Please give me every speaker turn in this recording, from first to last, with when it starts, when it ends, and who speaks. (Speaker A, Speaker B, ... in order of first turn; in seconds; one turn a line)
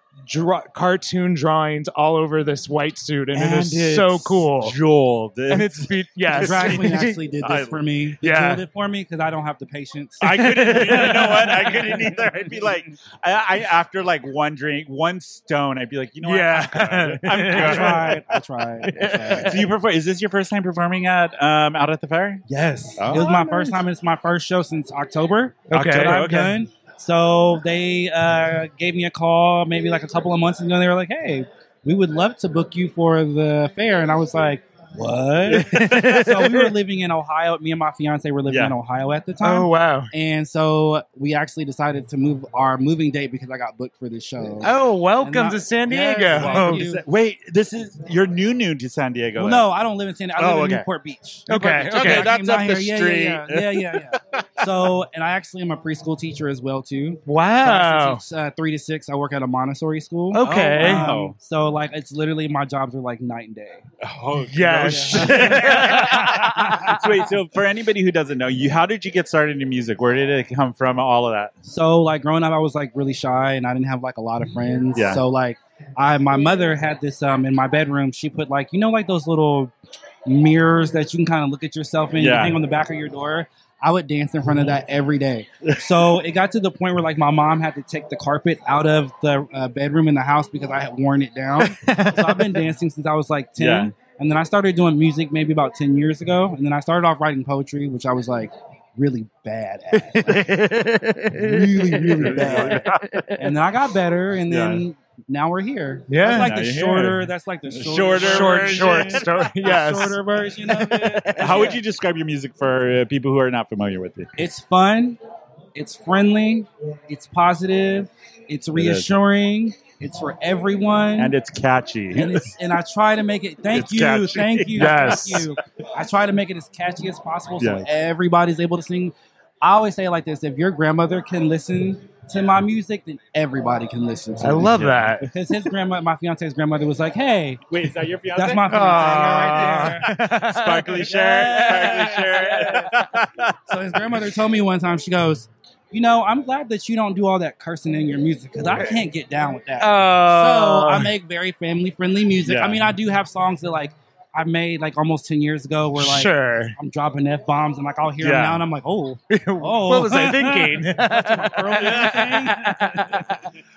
Speaker A: 0.2-4.8
Speaker B: 3.3-7.9
Speaker A: 5.5-7.2
Speaker C: 6.3-12.7
Speaker A: 8.2-8.7
Speaker B: 10.2-22.4
Speaker A: 10.2-11.7
Speaker A: 16.2-18.1
Speaker C: 17.4-19.7
Speaker A: 18.9-19.5
Speaker C: 22.5-47.0
Speaker B: 23.0-23.3
Speaker A: 23.3-23.7
Speaker A: 25.7-26.5
Speaker B: 25.8-26.5
Speaker B: 35.5-36.1
Speaker A: 35.6-36.7
Speaker B: 38.5-38.8
Speaker A: 39.4-40.1
Speaker A: 44.6-46.9
Speaker B: 46.3-49.6
Speaker C: 49.4-63.9
Speaker B: 50.4-50.9
Speaker A: 51.5-52.3
Speaker B: 51.8-54.7
Speaker A: 57.3-58.2
Speaker A: 60.3-61.1
Speaker B: 60.8-61.4
Speaker B: 64.0-71.5
Speaker A: 64.5-66.8
Speaker C: 64.8-67.2
Speaker C: 71.7-79.7
Speaker B: 74.9-75.2
Speaker C: 80.2-100.7
Speaker B: 82.1-82.6
Speaker B: 85.7-86.2
Speaker A: 91.7-92.6
Speaker B: 93.6-93.9
Speaker A: 99.9-103.6
Speaker C: 101.3-102.9
Speaker B: 102.2-102.9
Speaker C: 103.4-111.8
Speaker B: 104.5-104.9
Speaker A: 106.1-106.6
Speaker B: 106.3-109.5
Speaker A: 108.1-111.7
Speaker B: 111.3-114.3
Speaker C: 114.4-115.2
Speaker C: 115.8-121.3
Speaker B: 118.7-119.2
Speaker B: 121.2-122.5
Speaker C: 122.1-137.6
Speaker B: 123.7-125.6
Speaker A: 124.8-125.5
Speaker B: 127.6-127.9
Speaker A: 134.4-135.3
Speaker B: 134.7-135.0
Speaker B: 137.7-144.2
Speaker C: 138.3-140.1
Speaker A: 138.7-143.0
Speaker C: 140.8-142.9
Speaker C: 143.7-163.2
Speaker A: 149.8-151.1
Speaker B: 152.4-152.9
Speaker A: 156.0-156.8
Speaker B: 158.2-158.7
Speaker A: 159.3-163.2
Speaker B: 161.7-163.2